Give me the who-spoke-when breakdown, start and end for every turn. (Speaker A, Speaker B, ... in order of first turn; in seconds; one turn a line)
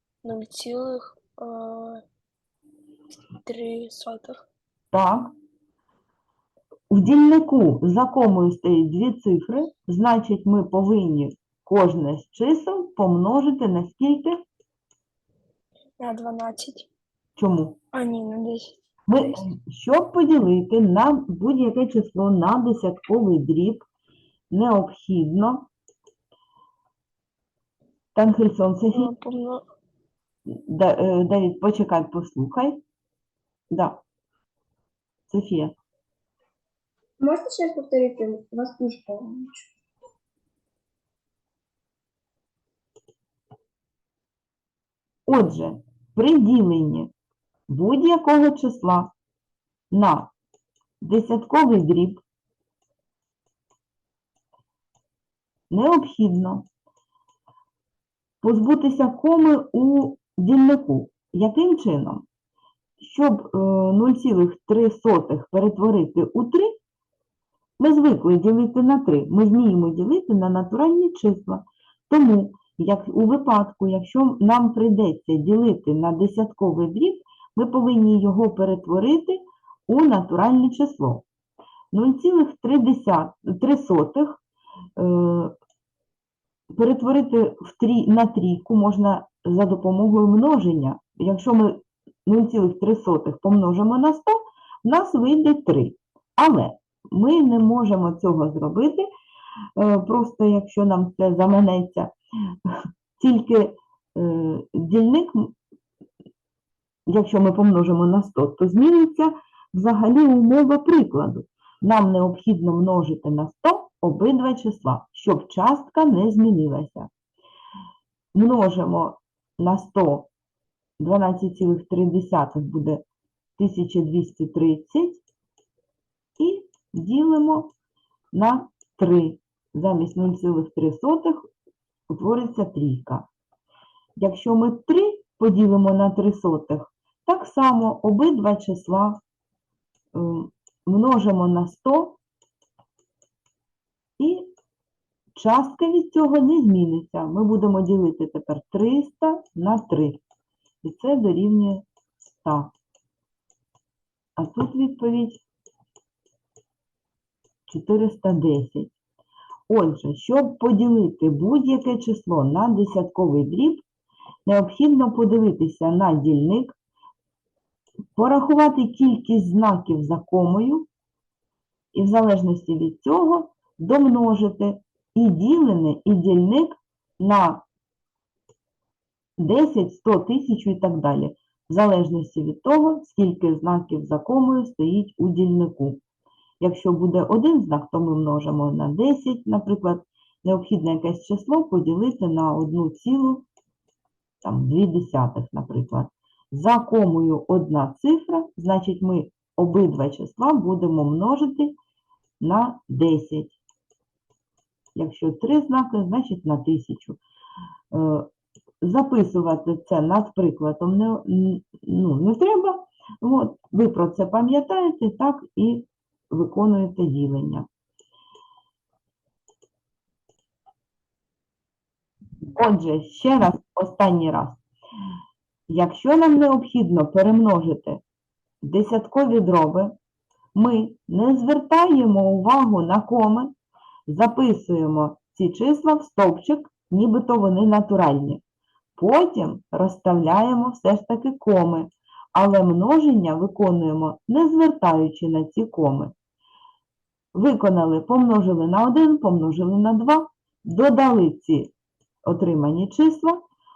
Speaker A: 0.2-2.0
Speaker A: 3.4-4.4
Speaker B: 4.9-5.3
Speaker B: 6.9-14.4
Speaker A: 16.0-16.9
Speaker B: 17.4-17.8
Speaker A: 17.9-19.5
Speaker B: 19.1-23.9
Speaker B: 24.5-25.7
Speaker B: 28.1-29.1
Speaker A: 28.9-29.6
Speaker B: 30.5-32.8
Speaker B: 33.7-34.0
Speaker B: 35.3-35.7
Speaker C: 37.2-39.4
Speaker B: 45.3-47.1
Speaker B: 47.7-49.1
Speaker B: 49.9-50.3
Speaker B: 51.0-52.2
Speaker B: 55.7-56.7
Speaker B: 58.4-62.2
Speaker B: 63.0-66.8
Speaker B: 67.8-81.2
Speaker B: 81.9-84.4
Speaker B: 85.0-85.5
Speaker B: 86.7-99.1
Speaker B: 99.8-102.1
Speaker B: 103.2-105.5
Speaker B: 107.1-117.1
Speaker B: 118.3-120.3
Speaker B: 121.0-123.0
Speaker B: 123.6-125.2
Speaker B: 126.4-127.7
Speaker B: 128.3-131.5
Speaker B: 132.1-133.3
Speaker B: 134.2-139.2
Speaker B: 140.1-142.2
Speaker B: 144.2-144.5
Speaker B: 145.3-150.2
Speaker B: 150.8-151.8
Speaker B: 152.4-152.7
Speaker B: 154.4-155.4
Speaker B: 157.7-158.9
Speaker B: 159.7-163.8
Speaker B: 164.5-166.8
Speaker B: 168.2-170.9
Speaker B: 171.9-177.6
Speaker B: 179.4-186.0
Speaker B: 186.6-193.5
Speaker B: 194.4-201.8
Speaker B: 202.4-203.6
Speaker B: 204.9-207.2
Speaker B: 207.9-208.3
Speaker B: 208.8-217.7
Speaker B: 222.4-224.6
Speaker B: 225.7-228.0
Speaker B: 228.6-229.9
Speaker B: 230.6-233.5
Speaker B: 234.1-238.4
Speaker B: 239.0-246.1
Speaker B: 247.3-251.7
Speaker B: 252.2-253.4